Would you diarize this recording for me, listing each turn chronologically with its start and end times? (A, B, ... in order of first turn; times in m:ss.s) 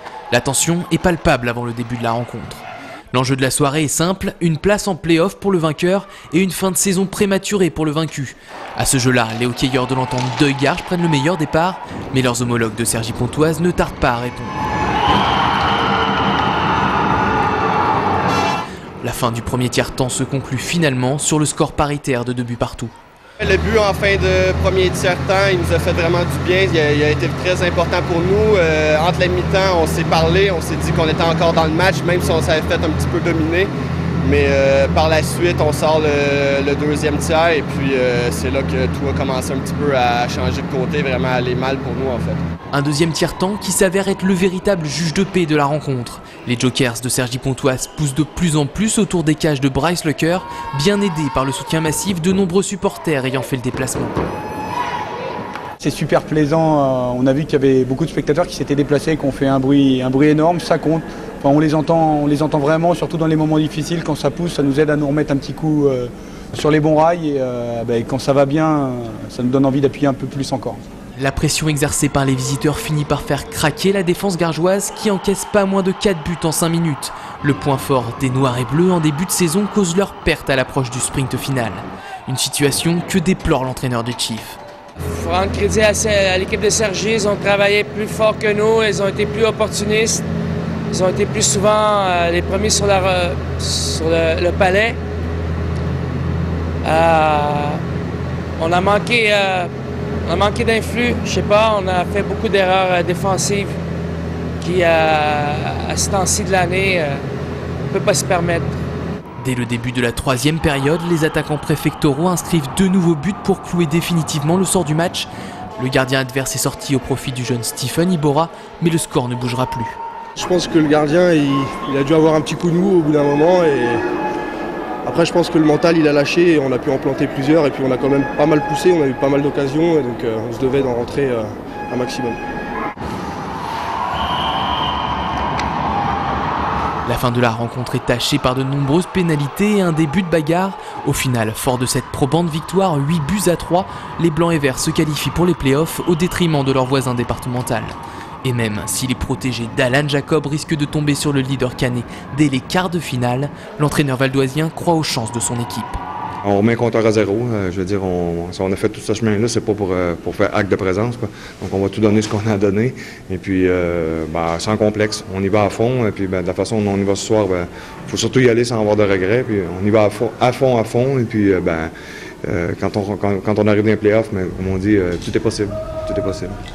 0:00.3-0:14.5 A
0:19.0-0:22.9 A
0:23.4-0:42.4 B
0:42.7-0:54.2 A
0:55.8-1:10.8 C
1:11.2-1:24.6 A
1:25.0-1:30.2 D
1:30.9-1:35.0 D
1:36.8-1:37.8 D
1:38.6-1:39.7 D
1:40.2-1:43.8 D
1:44.6-1:47.2 D
1:47.9-1:48.7 D
1:49.4-2:00.0 A
2:00.4-2:04.0 E
2:05.0-2:12.4 E
2:17.0-2:36.0 A
2:36.4-2:51.9 F
2:52.4-2:56.6 F